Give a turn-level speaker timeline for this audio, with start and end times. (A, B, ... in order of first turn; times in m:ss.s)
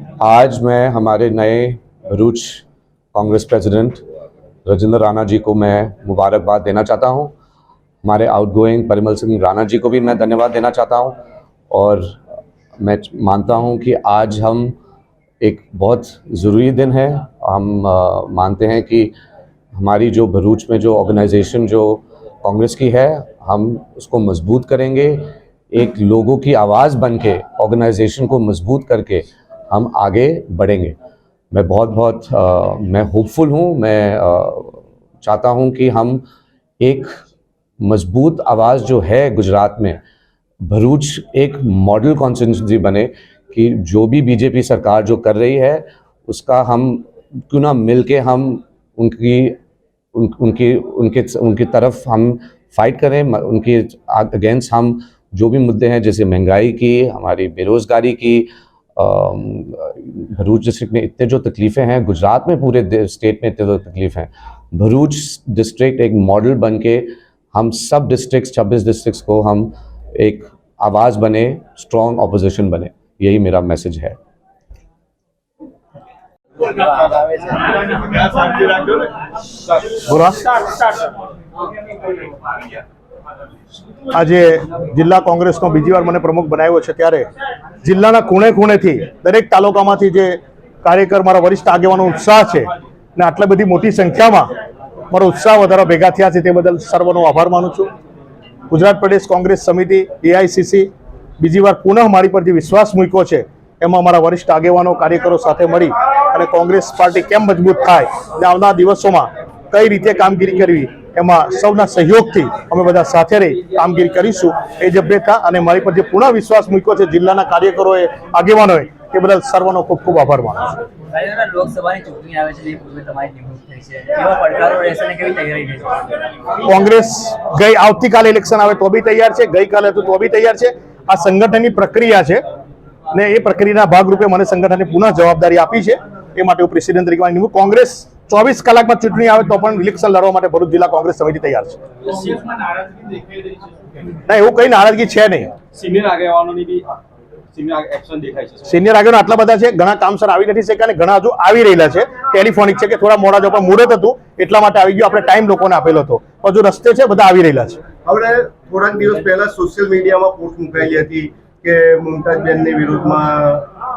0:00.2-0:02.6 A
0:03.1-0:04.0 A
0:04.7-0:07.3 A
0:08.0-0:11.2 A
0:11.7-0:12.2 A
0:12.8-0:14.8 A
0:15.4-0:19.1 A
0:19.8-0:31.0 A
0:31.5-0:36.2 A
0:36.8-0:37.1 A
0:37.8-0:40.0 A
0:40.7-0:49.6 A
0:50.2-1:14.2 A
1:16.8-1:17.6 B
1:18.4-1:19.0 C
1:19.9-1:21.0 D
1:24.1-1:27.3 D
1:27.8-1:34.5 D
1:35.1-1:37.9 D
1:38.7-2:00.8 D
2:01.1-2:06.2 B
2:06.6-2:12.4 D
2:13.1-2:21.8 D
2:22.1-2:22.6 C
2:24.2-2:25.5 D
2:25.7-2:27.0 C
2:27.5-2:28.6 C
2:28.7-2:37.8 D
2:38.0-2:43.7 E